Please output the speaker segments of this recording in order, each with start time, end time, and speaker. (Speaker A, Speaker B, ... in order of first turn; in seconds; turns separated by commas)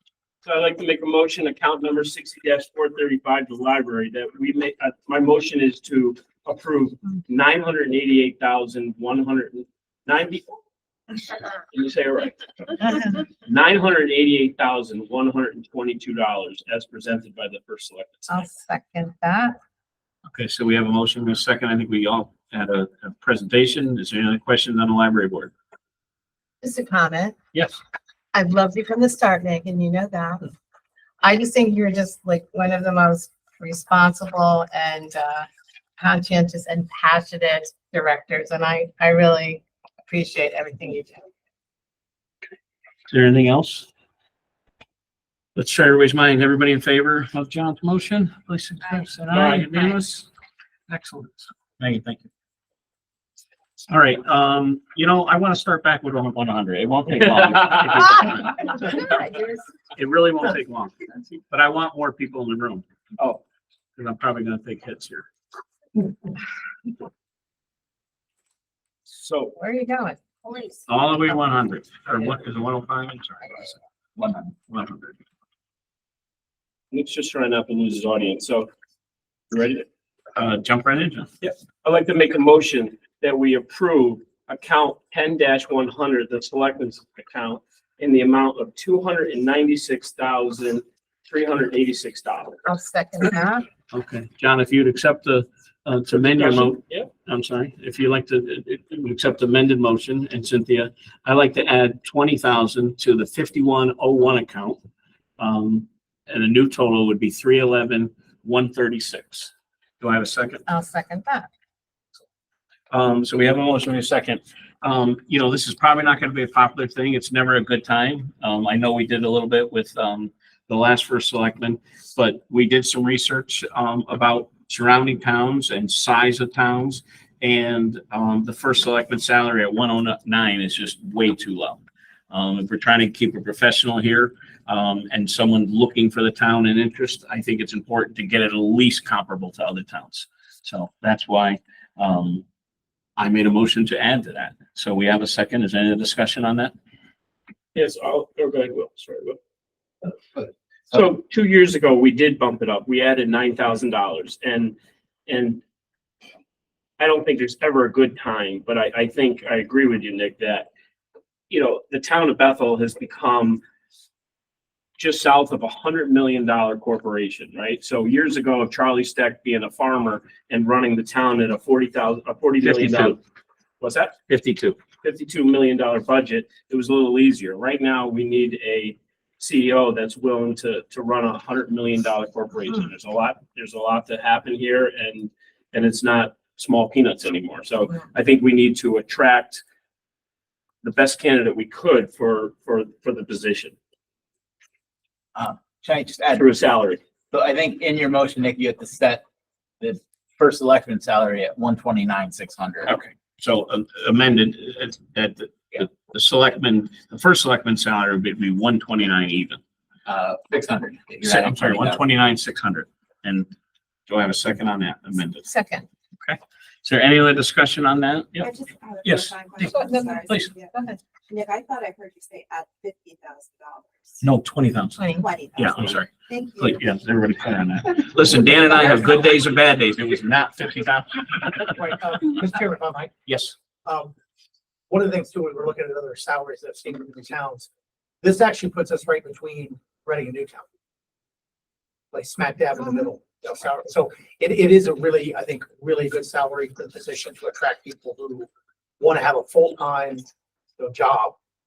Speaker A: 0.4-10.6, Speaker A: 11.7-18.4, Speaker B: 18.3-19.6, Speaker C: 20.3-25.5, Speaker B: 26.6-27.4, Speaker C: 27.5-27.8, Speaker B: 28.3-30.5, Speaker B: 31.2-35.5, Speaker B: 36.0-41.2, Speaker C: 43.1-43.9, Speaker C: 45.6-50.3, Speaker A: 49.3-49.7, Speaker C: 50.9-52.3, Speaker C: 53.9-58.7, Speaker B: 58.7-59.6, Speaker C: 60.0-62.8, Speaker C: 64.0-65.3, Speaker A: 69.1-69.5, Speaker B: 69.6-70.8, Speaker C: 70.9-73.8, Speaker D: 74.2-74.5, Speaker C: 74.7-75.2, Speaker A: 76.9-78.7, Speaker A: 79.5-79.9, Speaker C: 80.3-81.3, Speaker A: 81.4-92.6, Speaker B: 92.7-93.7, Speaker C: 93.9-104.8, Speaker A: 96.2-97.1, Speaker C: 105.4-110.6, Speaker B: 110.7-111.5, Speaker C: 112.9-142.4, Speaker C: 143.2-146.7, Speaker A: 147.8-149.4, Speaker A: 150.4-155.6, Speaker A: 157.0-160.7, Speaker A: 161.5-163.6, Speaker A: 165.0-173.2, Speaker C: 172.6-173.2, Speaker A: 173.8-174.2, Speaker C: 174.3-174.8, Speaker A: 175.0-189.6, Speaker A: 190.8-193.8, Speaker D: 195.3-196.5, Speaker A: 196.3-197.0, Speaker D: 197.3-199.2, Speaker D: 199.8-203.0, Speaker C: 202.9-209.6, Speaker D: 210.1-212.0, Speaker C: 211.2-213.5, Speaker C: 214.1-215.5, Speaker B: 215.4-215.9, Speaker C: 216.2-218.5, Speaker E: 218.4-220.7, Speaker C: 219.0-219.7, Speaker B: 219.7-220.2, Speaker C: 220.3-220.5, Speaker B: 220.7-221.0, Speaker E: 221.3-224.2, Speaker C: 224.2-225.1, Speaker B: 225.0-225.3, Speaker E: 225.2-226.8, Speaker C: 225.6-231.5, Speaker F: 231.6-233.1, Speaker C: 233.3-233.6, Speaker F: 233.8-234.1, Speaker F: 234.9-237.7, Speaker F: 238.2-240.7, Speaker F: 242.1-248.5, Speaker F: 249.0-250.3, Speaker F: 250.8-251.4